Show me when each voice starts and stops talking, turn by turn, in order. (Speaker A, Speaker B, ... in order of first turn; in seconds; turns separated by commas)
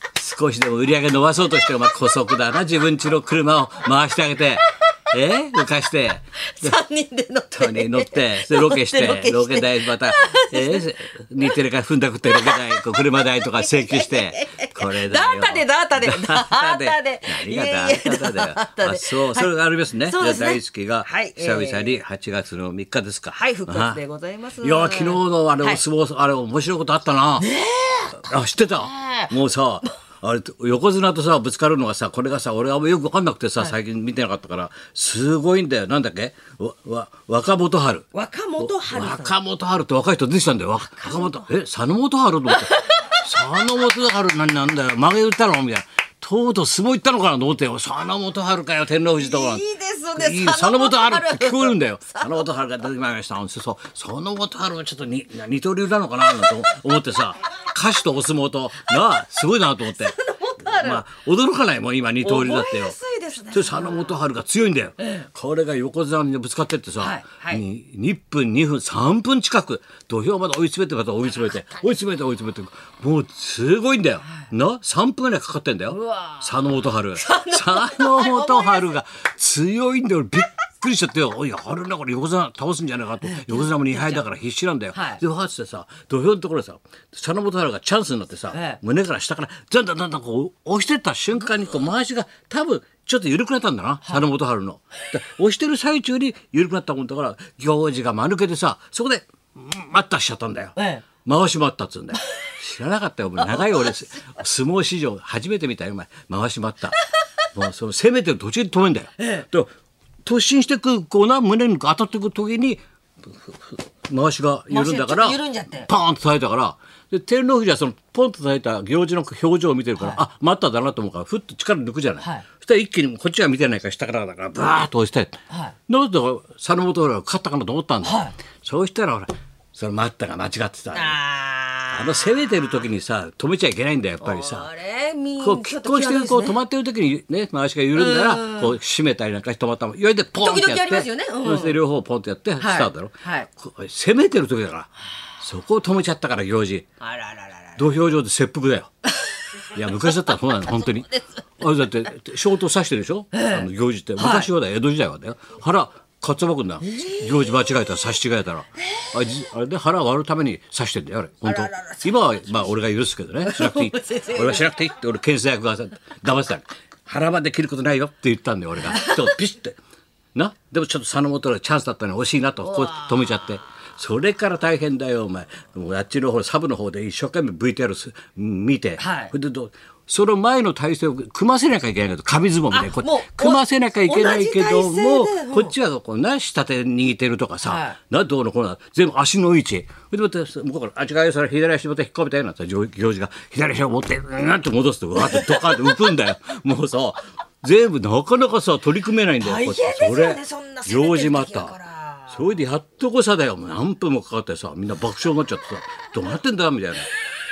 Speaker A: 0.1-6.8, Speaker B: 6.6-10.9, Speaker A: 7.5-24.0, Speaker B: 12.3-12.8, Speaker B: 13.6-22.0, Speaker B: 23.3-25.8, Speaker A: 24.6-27.5, Speaker B: 27.4-29.4, Speaker A: 28.2-38.1, Speaker B: 38.1-39.4, Speaker A: 38.6-63.0, Speaker B: 40.9-41.5, Speaker B: 42.5-43.3, Speaker B: 49.2-52.5, Speaker B: 59.9-61.0, Speaker B: 62.2-64.2, Speaker A: 63.5-107.0, Speaker B: 67.0-67.6, Speaker B: 71.5-71.8, Speaker B: 75.9-79.0, Speaker B: 83.2-84.2, Speaker B: 84.9-85.2, Speaker B: 88.5-88.8, Speaker B: 100.8-101.0, Speaker B: 103.4-104.0, Speaker A: 107.5-109.7, Speaker B: 109.2-109.5, Speaker A: 110.2-131.2, Speaker B: 114.7-115.9, Speaker B: 125.5-125.8, Speaker B: 128.0-128.3, Speaker B: 130.9-132.6, Speaker A: 131.9-134.7, Speaker B: 134.2-136.6, Speaker A: 135.4-146.9, Speaker B: 137.9-138.8, Speaker B: 140.4-141.8, Speaker B: 142.6-143.5, Speaker B: 147.0-147.8, Speaker A: 147.8-148.9, Speaker B: 149.3-150.3, Speaker A: 149.7-169.8, Speaker B: 153.3-154.5, Speaker B: 156.8-157.9, Speaker B: 161.5-162.5, Speaker B: 163.4-164.7, Speaker B: 168.8-169.4, Speaker A: 170.3-201.8, Speaker B: 172.6-173.6, Speaker B: 179.0-179.3, Speaker B: 182.7-185.7, Speaker B: 187.6-188.0, Speaker B: 195.2-196.0, Speaker B: 199.4-202.6, Speaker A: 202.3-207.1